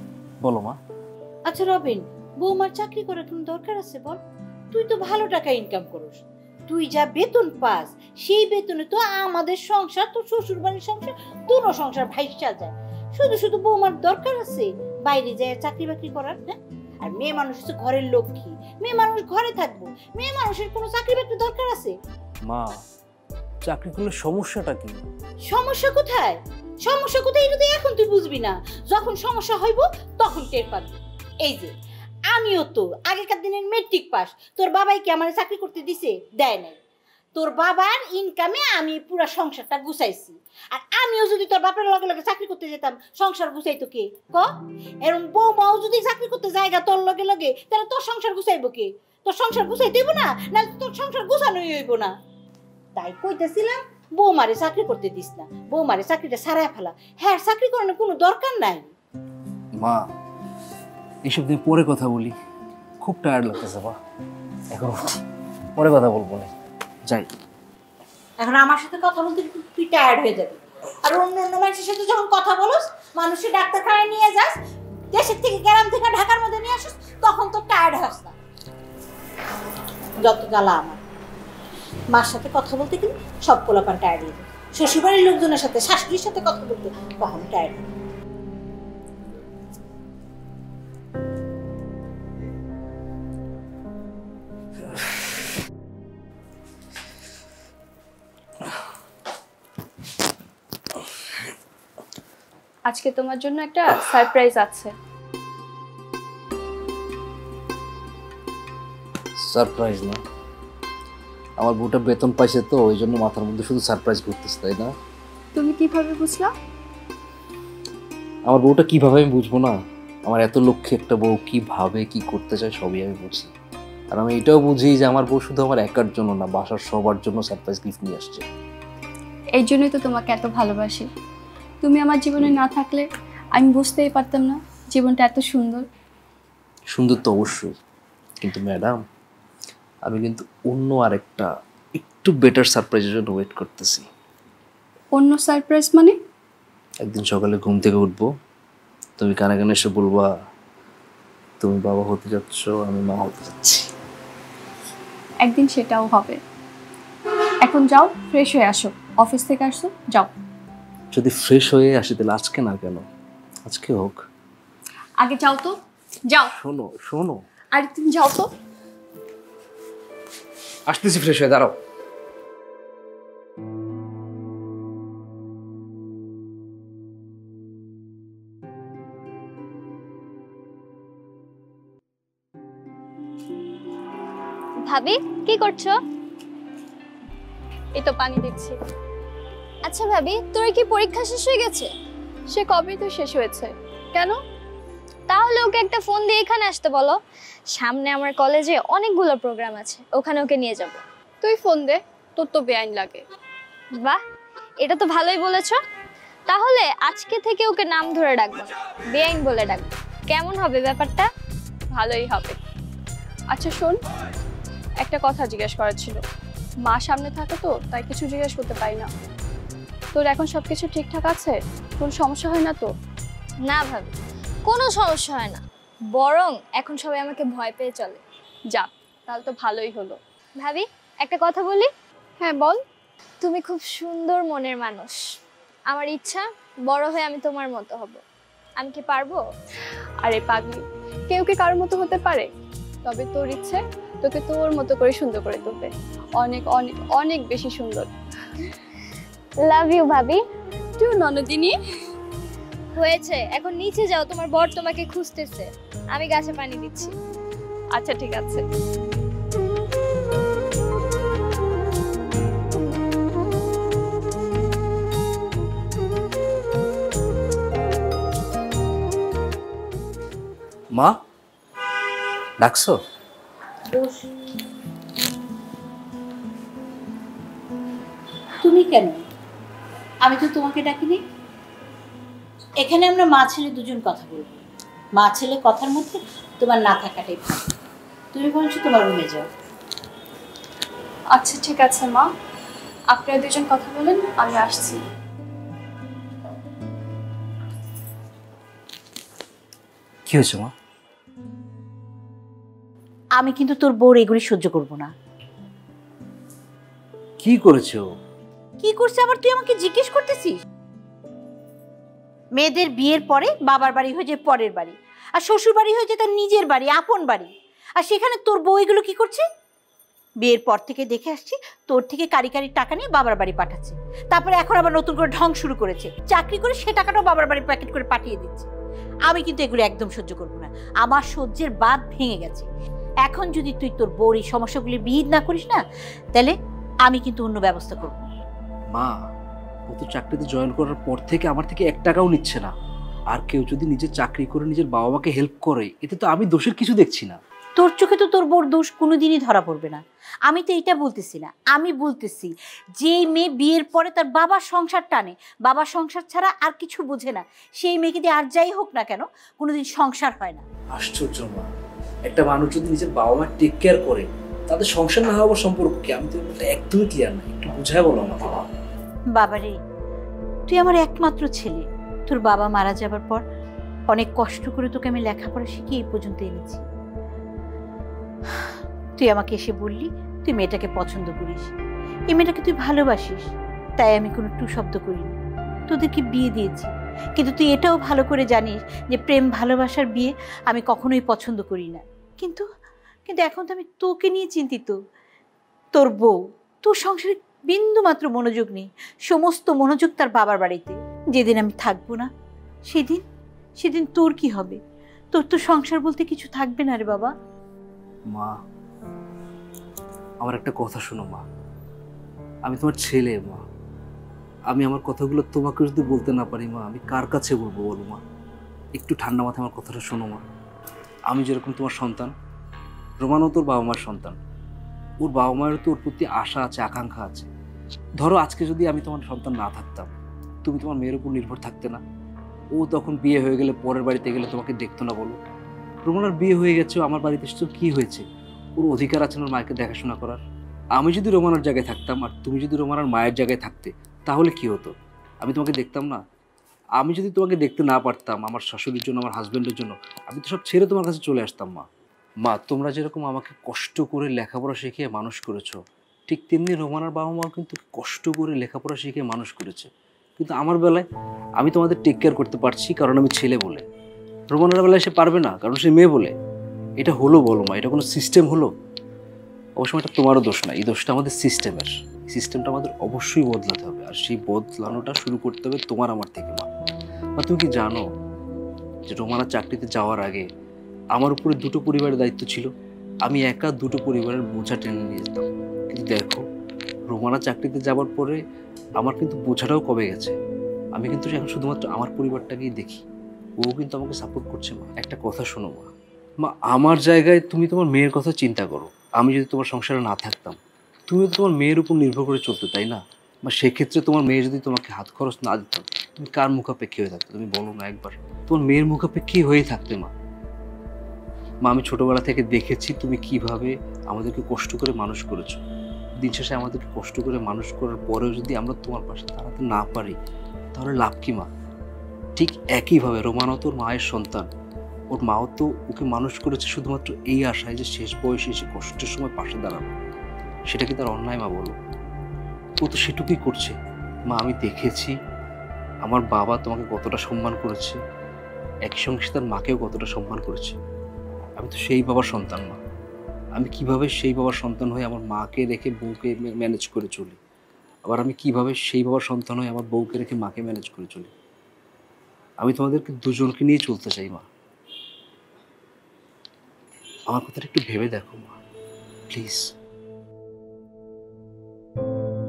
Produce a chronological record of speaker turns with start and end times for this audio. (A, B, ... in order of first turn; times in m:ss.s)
0:00.4-0:00.8 A
0:01.5-0:04.2 B
0:04.7-0:21.9 B
0:22.4-0:22.8 A
0:23.6-0:25.0 A
0:25.5-0:31.7 B
0:32.3-0:36.8 B
0:37.3-0:44.5 B
0:45.0-0:52.1 B
0:53.0-0:58.9 B
0:59.8-1:00.1 A
1:01.2-1:02.3 A
1:03.0-1:04.0 A
1:04.7-1:05.2 A
1:05.8-1:06.5 A
1:08.4-1:14.6 B
1:15.1-1:18.3 B
1:20.2-1:21.0 B
1:22.1-1:27.8 B
1:42.9-1:44.9 C
1:49.4-1:50.2 A
1:51.6-1:54.9 A
1:55.6-1:56.5 C
1:58.5-2:03.5 A
2:04.1-2:08.4 A
2:09.6-2:11.1 C
2:11.8-2:13.0 C
2:13.6-2:15.8 C
2:16.9-2:17.7 A
2:18.4-2:19.0 A
2:20.0-2:24.0 A
2:25.2-2:26.2 C
2:27.0-2:28.3 A
2:29.2-2:30.3 A
2:31.6-2:33.9 A
2:35.4-2:36.4 C
2:37.6-2:40.3 C
2:41.1-2:43.0 A
2:43.6-2:44.2 A
2:45.2-2:45.7 C
2:46.5-2:47.4 A
2:47.7-2:48.5 C
2:50.9-2:51.8 A
3:04.8-3:05.9 D
3:08.0-3:08.8 C
3:09.8-3:11.9 D
3:12.5-3:14.4 C
3:15.3-3:17.2 D
3:17.7-3:21.0 D
3:21.4-3:23.2 C
3:24.8-3:25.8 D
3:26.5-3:31.3 D
3:31.9-3:32.6 C
3:33.5-3:34.0 C
3:35.0-3:36.2 C
3:36.8-3:39.1 C
3:40.1-3:42.9 C
3:43.6-3:44.1 D
3:44.7-3:45.6 D
3:46.1-3:48.2 D
3:48.7-3:50.2 C
3:50.6-3:51.9 D
3:52.4-3:52.8 C
3:53.4-3:55.2 D
3:55.9-3:58.2 D
3:58.8-3:59.4 D
4:00.2-4:02.5 C
4:03.0-4:08.1 C
4:09.6-4:10.4 D
4:11.0-4:11.8 C
4:13.0-4:17.1 D
4:18.0-4:18.6 C
4:30.9-4:31.2 A
4:32.6-4:33.0 A
4:33.9-4:34.2 B
4:38.6-4:39.2 B
4:40.2-4:41.2 B
4:42.8-4:44.6 B
4:45.2-4:47.7 B
4:48.3-4:49.5 B
4:51.3-4:52.3 C
4:53.1-4:55.0 C
5:00.3-5:00.7 A
5:03.4-5:05.1 B
5:07.4-5:08.0 A
5:08.8-5:10.6 B
5:12.6-5:19.4 B
5:20.4-5:28.7 B
5:29.3-5:32.7 B
5:33.2-5:35.8 B
5:37.0-5:38.3 B
5:39.9-5:42.7 A
5:43.3-5:47.4 A
5:47.8-6:00.6 B
6:00.9-6:01.7 A
6:02.3-6:08.6 A
6:09.3-6:09.8 B
6:10.7-6:13.4 B
6:14.1-6:16.8 B
6:18.5-6:21.7 B
6:22.3-6:25.4 B
6:25.9-6:32.6 B
6:33.3-6:35.0 B
6:35.9-6:42.3 B
6:42.9-6:43.2 B
6:43.8-6:44.8 B
6:45.3-6:47.3 B
6:48.3-6:48.6 A
6:50.4-6:51.4 A
6:52.6-6:53.6 A
6:54.7-6:58.2 A
6:59.0-7:00.4 A
7:01.3-7:02.3 A
7:03.2-7:04.4 A
7:05.2-7:07.5 A
7:08.2-7:10.1 A
7:10.6-7:12.0 A
7:12.7-7:15.4 A
7:16.0-7:18.2 A
7:18.8-7:20.4 A
7:20.9-7:26.2 A
7:27.0-7:31.8 A
7:32.4-7:41.0 A
7:41.6-7:43.8 A
7:44.5-7:46.3 A
7:47.0-7:48.7 A
7:49.8-7:56.7 A
7:57.4-7:58.0 A
7:59.1-8:00.4 A
8:01.1-8:02.7 A
8:03.2-8:06.4 A
8:07.1-8:08.4 A
8:09.0-8:10.4 A
8:10.9-8:13.0 A
8:13.6-8:15.9 A
8:16.4-8:20.6 A
8:21.1-8:30.1 A
8:31.6-8:35.6 A
8:36.2-8:40.2 A
8:40.7-8:41.5 A
8:42.4-8:44.5 A
8:45.1-8:49.9 A
8:50.7-8:51.7 A
8:52.8-8:53.8 A
8:54.3-8:55.1 A
8:56.0-8:58.0 A
8:58.8-9:00.8 A
9:01.6-9:02.8 A
9:03.6-9:07.4 A
9:08.0-9:11.3 A
9:12.6-9:14.4 A
9:17.3-9:18.5 A
9:19.3-9:19.7 A